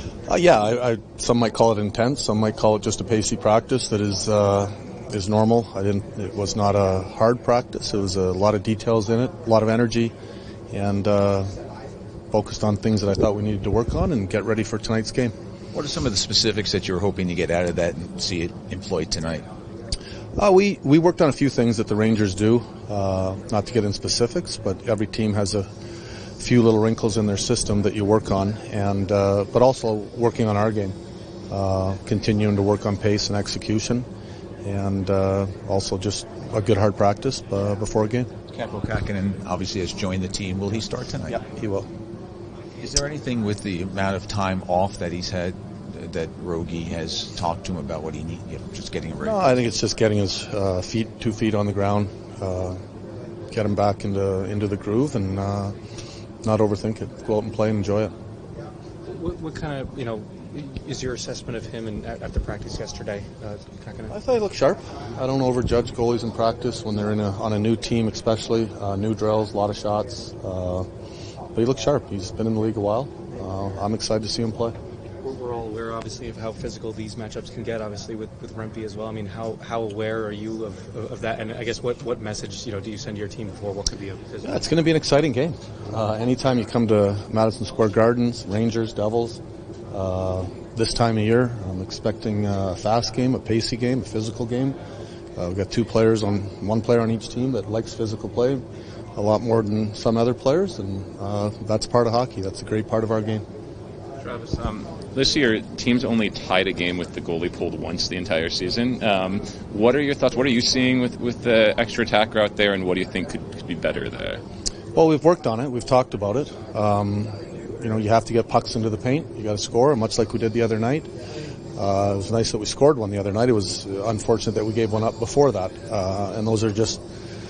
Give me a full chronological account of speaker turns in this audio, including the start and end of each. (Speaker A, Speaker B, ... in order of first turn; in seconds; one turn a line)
Speaker A: 0.3-10.1
Speaker A: 10.7-11.5
Speaker A: 12.3-15.3
Speaker B: 15.7-19.4
Speaker A: 20.4-25.7
Speaker A: 26.4-30.9
Speaker A: 31.5-34.0
Speaker A: 34.6-38.3
Speaker B: 38.5-41.4
Speaker A: 41.3-41.9
Speaker B: 42.8-49.6
Speaker A: 49.2-52.8
Speaker A: 53.5-55.7
Speaker A: 56.4-58.1
Speaker C: 59.1-64.1
Speaker A: 64.1-70.9
Speaker A: 71.5-74.8
Speaker C: 75.2-84.6
Speaker A: 84.4-89.4
Speaker A: 89.9-94.8
Speaker A: 95.3-98.6
Speaker A: 99.1-103.4
Speaker D: 104.2-114.4
Speaker A: 115.0-121.1
Speaker A: 121.7-127.0